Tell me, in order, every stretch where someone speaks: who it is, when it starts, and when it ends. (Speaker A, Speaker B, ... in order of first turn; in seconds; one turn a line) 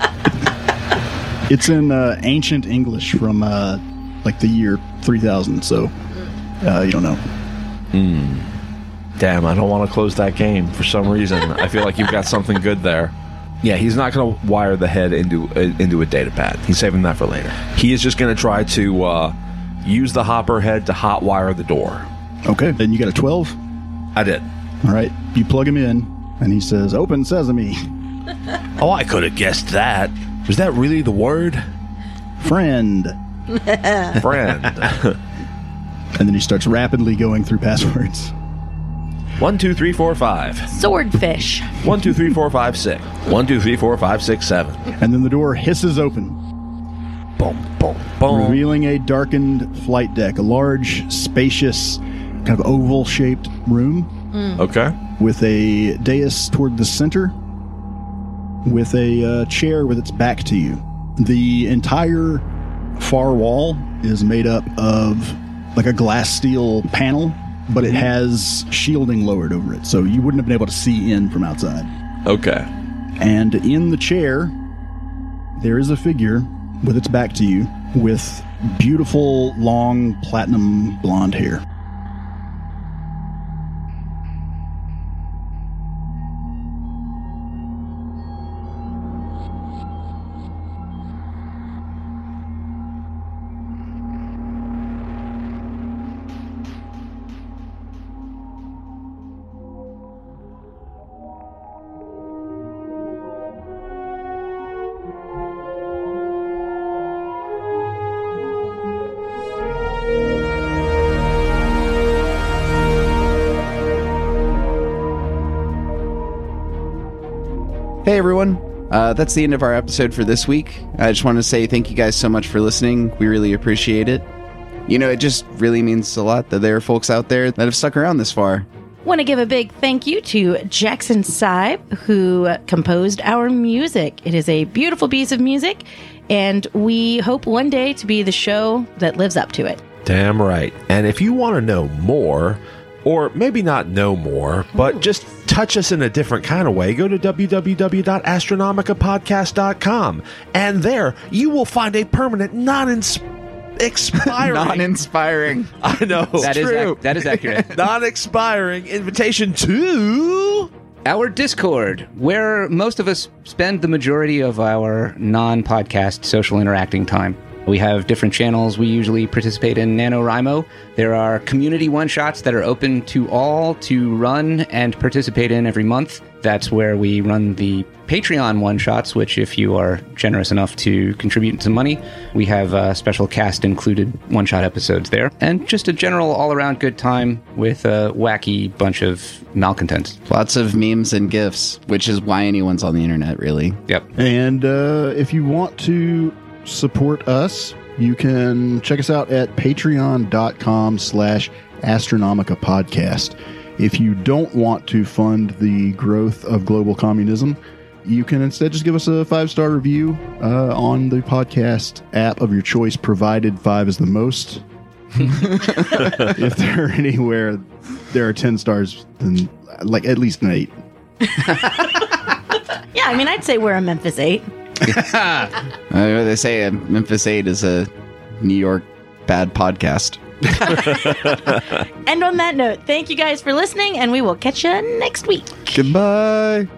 Speaker A: 1.5-5.9
Speaker A: 6.6-7.2
Speaker B: 7.9-8.5
Speaker B: 9.2-22.1
Speaker A: 22.4-23.6
Speaker B: 24.1-24.5
Speaker A: 24.8-27.8
Speaker B: 28.8-31.6
Speaker A: 32.4-33.1
Speaker C: 33.7-34.1
Speaker B: 34.1-35.2
Speaker A: 36.1-38.3
Speaker B: 39.4-40.8
Speaker C: 40.7-41.8
Speaker B: 41.8-44.9
Speaker A: 45.0-46.4
Speaker B: 47.4-48.6
Speaker A: 48.2-54.1
Speaker B: 54.5-54.9
Speaker A: 55.2-57.4
Speaker A: 58.6-62.4
Speaker A: 63.0-71.9
Speaker B: 72.2-72.7
Speaker A: 73.2-74.5
Speaker A: 75.6-81.6
Speaker D: 118.0-124.2
Speaker D: 124.9-128.7
Speaker C: 129.0-139.8
Speaker B: 140.0-153.2
Speaker B: 153.8-154.9
Speaker D: 154.3-156.9
Speaker B: 155.8-160.7
Speaker E: 156.4-157.7
Speaker E: 161.0-190.2
Speaker D: 190.3-193.8
Speaker A: 194.1-214.6
Speaker A: 215.2-220.7
Speaker C: 221.3-222.0
Speaker C: 222.9-224.5
Speaker D: 225.9-230.8
Speaker C: 230.6-235.7
Speaker D: 235.7-236.7